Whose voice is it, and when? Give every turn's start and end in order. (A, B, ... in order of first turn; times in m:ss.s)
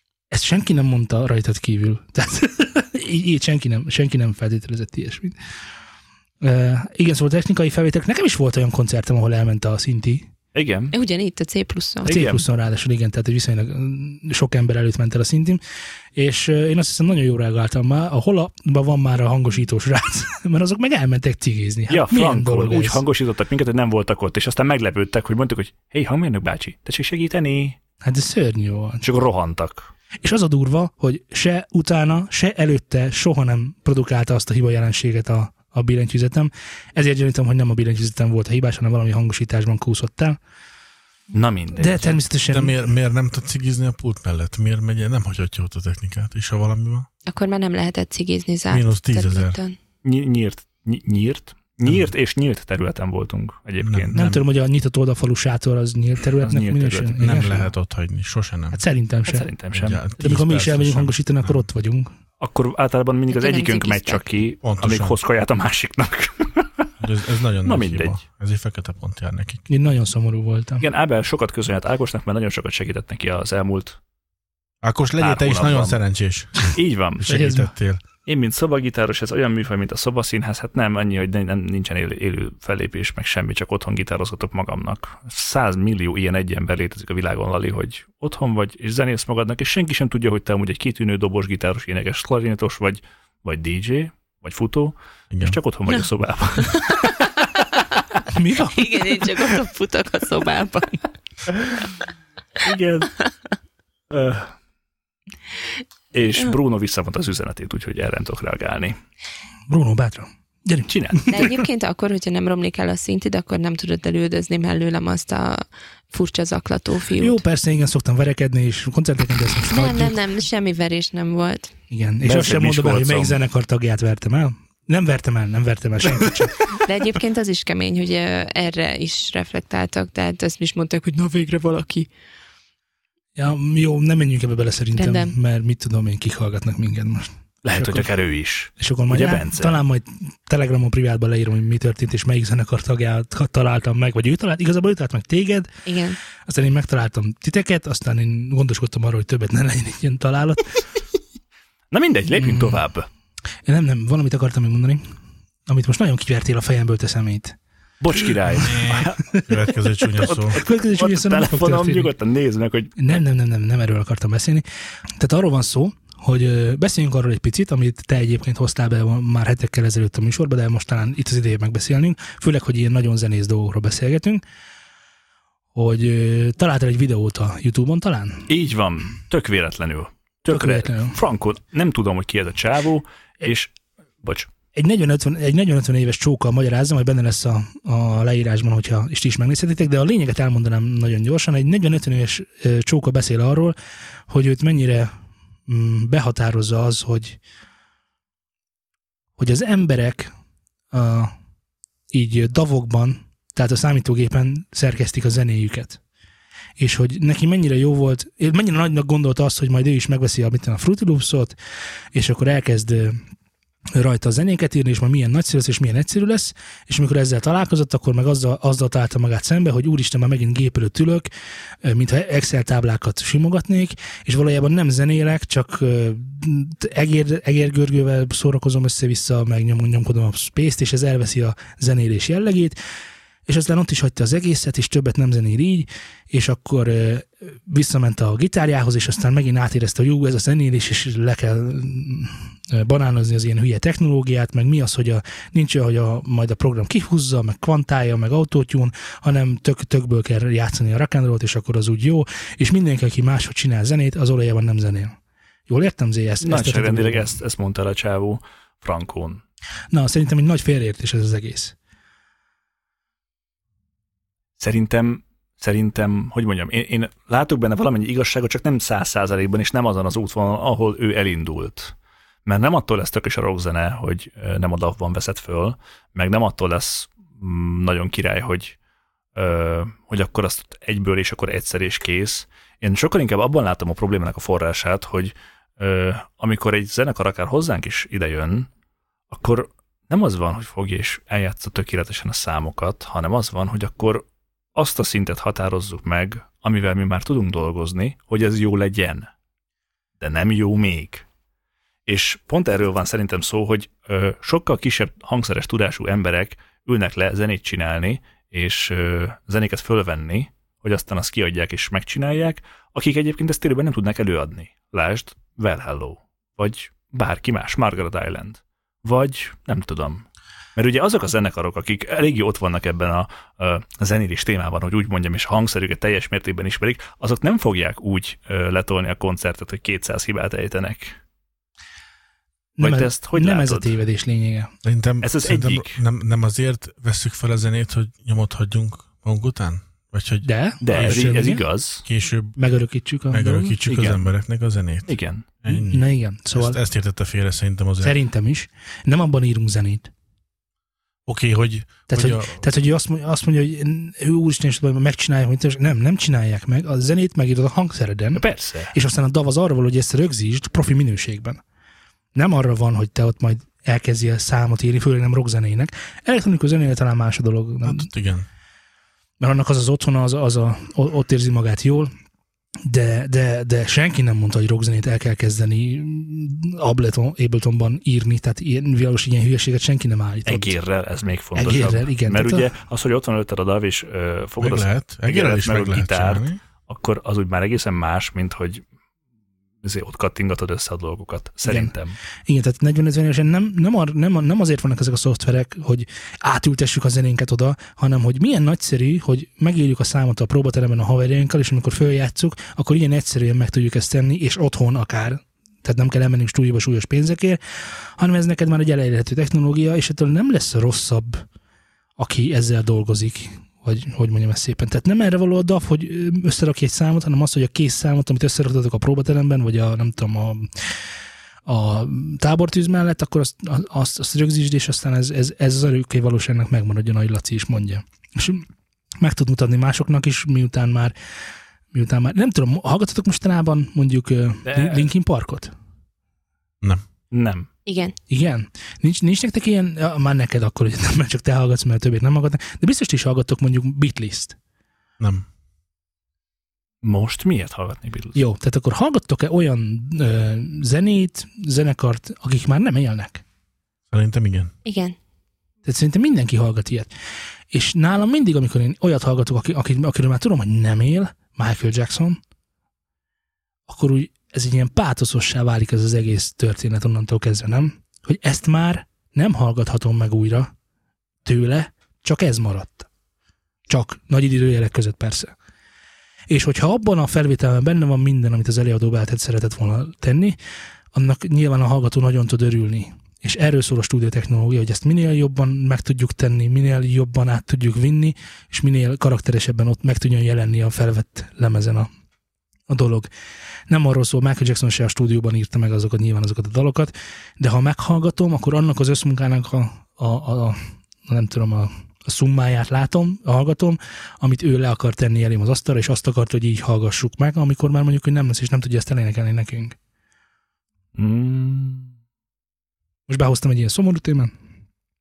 0:00.3-0:05.4 A
0:06.4-0:10.3 A
0:10.5-0:10.9 B
0:10.9-0:12.1 C
0:12.0-0:12.4 B
0:12.1-0:15.6 A
0:16.2-0:23.0 A
0:21.9-0:27.8 B
0:28.0-0:29.0 A
0:29.0-0:29.9 B
0:30.2-0:40.4 A
0:41.3-0:42.2 B
0:41.8-0:42.8 A
0:42.5-0:47.1 D
0:47.3-0:49.8 C
0:48.7-0:49.6 D
0:50.0-0:54.2 B
0:51.9-0:52.1 D
0:53.8-0:54.4 D
0:54.1-0:57.7 A
0:56.4-0:57.4 B
0:57.2-0:58.8 D
0:58.7-0:59.5 A
0:59.3-1:00.0 B
0:59.7-1:01.6 D
1:00.2-1:02.1 A
1:02.4-1:06.9 B
1:03.3-1:04.2 C
1:04.6-1:05.2 D
1:07.0-1:09.6 D
1:07.6-1:08.2 B
1:09.7-1:10.9 A
1:10.8-1:14.0 B
1:14.8-1:18.0 D
1:15.2-1:16.0 B
1:16.6-1:17.3 B
1:17.2-1:17.7 A
1:18.3-1:37.3 B
1:35.3-1:35.6 D
1:36.7-1:37.0 C
1:38.3-1:39.2 A
1:38.7-1:41.0 C
1:42.6-1:43.2 B
1:44.1-1:44.5 B
1:46.1-1:49.0 B
1:49.7-1:51.5 A
1:50.9-1:51.5 B
1:51.3-1:57.4 C
1:57.2-2:00.2 A
1:59.7-2:01.7 C
2:01.9-2:06.6 A
2:02.2-2:03.4 B
2:06.8-2:12.1 C
2:13.4-2:18.1 A
2:15.0-2:15.3 C
2:17.6-2:19.8 B
2:18.8-2:25.7 A
2:25.9-2:26.2 C
2:26.5-2:30.8 A
2:31.9-2:33.1 B
2:32.3-2:32.8 A
2:33.6-2:35.0 A
2:35.7-2:37.6 A
2:38.0-2:39.2 B
2:38.2-2:39.6 A
2:38.6-2:40.6 D
2:40.2-2:43.1 B
2:40.2-2:42.1 A
2:43.0-2:44.6 A
2:45.2-2:54.4 A
2:55.8-2:58.5 A
2:58.5-3:03.7 B
3:00.5-3:01.2 A
3:04.2-3:04.5 B
3:04.7-3:13.8 A
3:14.3-3:15.1 A
3:15.7-3:17.4 A
3:19.4-3:20.3 A
3:20.9-3:21.3 A
3:22.1-3:26.0 A
3:26.8-3:31.6 A
3:32.1-3:33.2 A
3:34.0-3:41.3 A
3:41.8-3:52.8 A
3:53.5-4:15.2 A
4:15.7-4:17.3 A
4:16.4-4:19.4 B
4:19.9-4:21.8 A
4:24.6-4:31.9 B
4:32.4-4:38.8 B
4:39.4-4:48.7 B
4:49.3-4:59.3 B
5:00.2-5:01.2 B
5:02.1-5:31.2 B
5:32.8-5:34.7 A
5:32.8-5:33.9 B
5:34.8-5:41.3 D
5:35.2-5:36.0 B
5:40.4-5:41.6 A
5:40.8-5:42.0 B
5:42.0-5:42.6 D
5:42.6-5:43.8 A
5:43.3-5:46.0 D
5:43.9-5:44.2 B
5:45.1-5:45.5 B
5:45.7-5:46.8 A
5:46.6-5:48.2 D
5:48.0-5:50.1 A
5:51.3-5:52.6 D
5:52.1-6:01.6 A
5:58.4-5:58.9 B
6:02.4-6:08.1 A
6:07.8-6:08.5 D
6:09.4-6:12.1 A
6:12.9-6:20.8 A
6:20.5-6:28.8 B
6:21.6-6:22.7 A
6:24.6-6:26.6 D
6:29.8-6:32.2 B
6:31.6-6:31.9 A
6:32.5-6:47.6 A
6:48.2-6:51.4 A
6:52.2-7:00.9 A
7:01.7-7:08.7 A
7:09.2-7:11.2 A
7:11.9-7:15.7 A
7:14.7-7:15.1 B
7:17.3-7:17.7 B
7:17.9-7:18.2 C
7:18.3-7:24.6 A
7:25.2-7:25.4 D
7:27.0-7:28.4 B
7:28.4-7:33.4 A
7:34.1-7:34.7 D
7:34.8-7:35.2 C
7:35.8-7:37.1 A
7:37.7-7:42.4 A
7:43.9-7:50.7 A
7:51.4-7:53.1 A
7:53.9-7:55.5 A
7:56.5-8:00.6 A
8:01.1-8:12.1 A
8:12.9-8:13.3 A
8:13.9-8:30.0 A
8:31.2-8:32.1 B
8:33.3-8:34.5 A